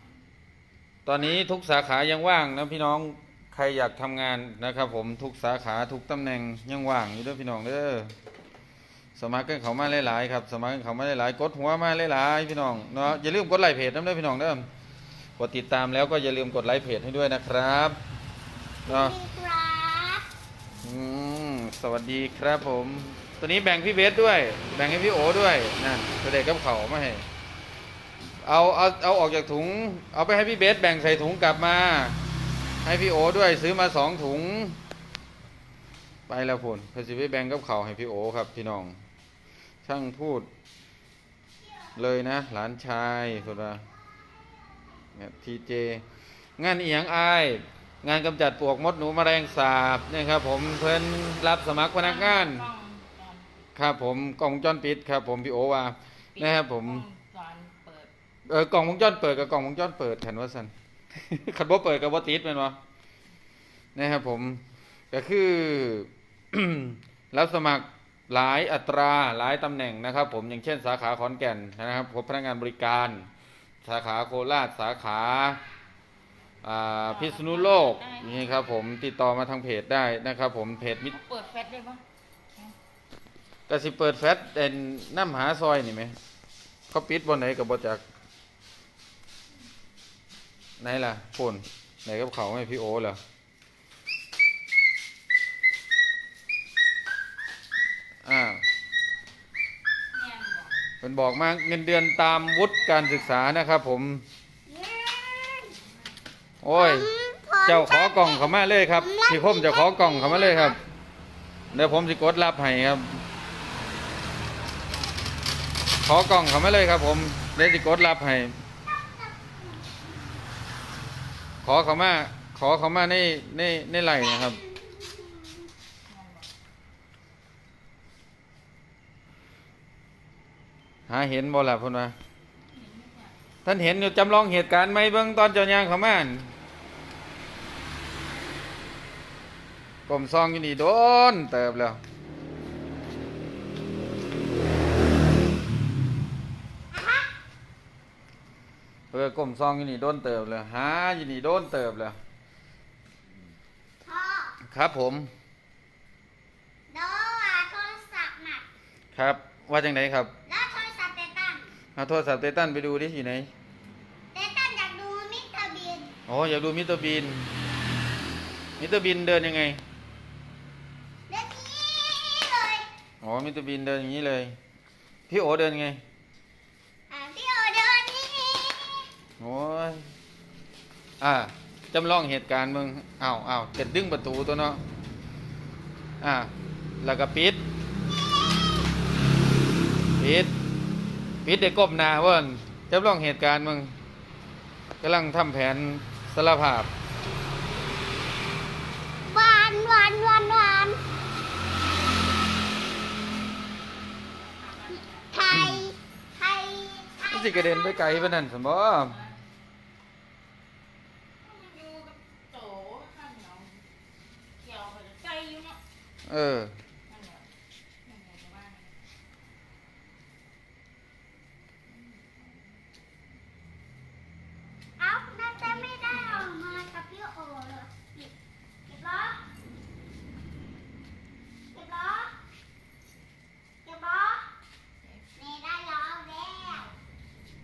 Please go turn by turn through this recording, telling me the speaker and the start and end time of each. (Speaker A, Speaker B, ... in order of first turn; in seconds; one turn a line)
Speaker A: 1.1-8.1
Speaker A: 9.2-14.7
Speaker A: 15.4-18.0
Speaker B: 18.9-20.3
Speaker A: 18.9-19.2
Speaker A: 20.8-27.3
Speaker A: 28.4-32.2
Speaker A: 32.8-34.8
Speaker A: 36.3-39.0
Speaker A: 39.8-40.5
Speaker B: 41.6-42.0
Speaker A: 42.0-43.9
Speaker B: 43.8-45.0
Speaker A: 45.2-46.0
Speaker A: 46.6-52.7
Speaker C: 52.0-53.5
Speaker A: 53.8-57.0
Speaker C: 56.4-58.1
Speaker A: 58.5-62.8
Speaker A: 64.0-73.3
Speaker A: 73.8-75.6
Speaker A: 76.6-81.1
Speaker C: 77.1-78.6
Speaker C: 81.1-82.0
Speaker A: 83.7-86.2
Speaker A: 86.9-88.0
Speaker A: 90.8-93.2
Speaker A: 98.2-98.6
Speaker C: 100.1-100.8
Speaker A: 101.0-104.2
Speaker C: 102.3-103.4
Speaker B: 104.7-105.7
Speaker A: 106.6-107.1
Speaker B: 106.7-110.8
Speaker A: 107.7-110.8
Speaker C: 111.7-112.3
Speaker A: 111.7-113.2
Speaker C: 114.5-115.2
Speaker A: 116.0-118.6
Speaker B: 118.8-120.4
Speaker A: 121.6-124.6
Speaker B: 124.2-125.7
Speaker C: 126.1-126.5
Speaker A: 131.1-132.2
Speaker C: 132.6-133.4
Speaker A: 133.7-136.5
Speaker A: 140.1-142.0
Speaker B: 146.9-147.3
Speaker A: 149.1-152.2
Speaker B: 154.1-154.6
Speaker A: 154.6-155.3
Speaker B: 156.9-158.7
Speaker A: 159.2-160.3
Speaker B: 160.5-161.7
Speaker A: 162.0-163.5
Speaker B: 164.3-166.2
Speaker A: 166.3-167.5
Speaker A: 168.8-169.8
Speaker B: 171.3-172.9
Speaker A: 173.2-174.6
Speaker A: 175.3-176.0
Speaker B: 177.1-179.1
Speaker A: 179.4-180.1
Speaker A: 181.2-184.8
Speaker A: 186.2-187.7
Speaker A: 190.2-190.5
Speaker A: 191.4-194.0
Speaker A: 195.0-196.9
Speaker B: 199.2-201.0
Speaker C: 204.3-205.6
Speaker B: 205.3-208.4
Speaker A: 207.3-209.2
Speaker C: 209.1-209.3
Speaker C: 211.4-213.9
Speaker C: 214.6-215.8
Speaker A: 216.3-216.8
Speaker C: 217.1-217.5
Speaker C: 218.1-218.9
Speaker C: 221.9-222.8
Speaker B: 225.0-228.3
Speaker C: 225.6-226.9
Speaker B: 228.9-229.4
Speaker B: 231.7-232.3
Speaker B: 233.8-234.5
Speaker C: 235.0-235.3
Speaker B: 235.4-236.9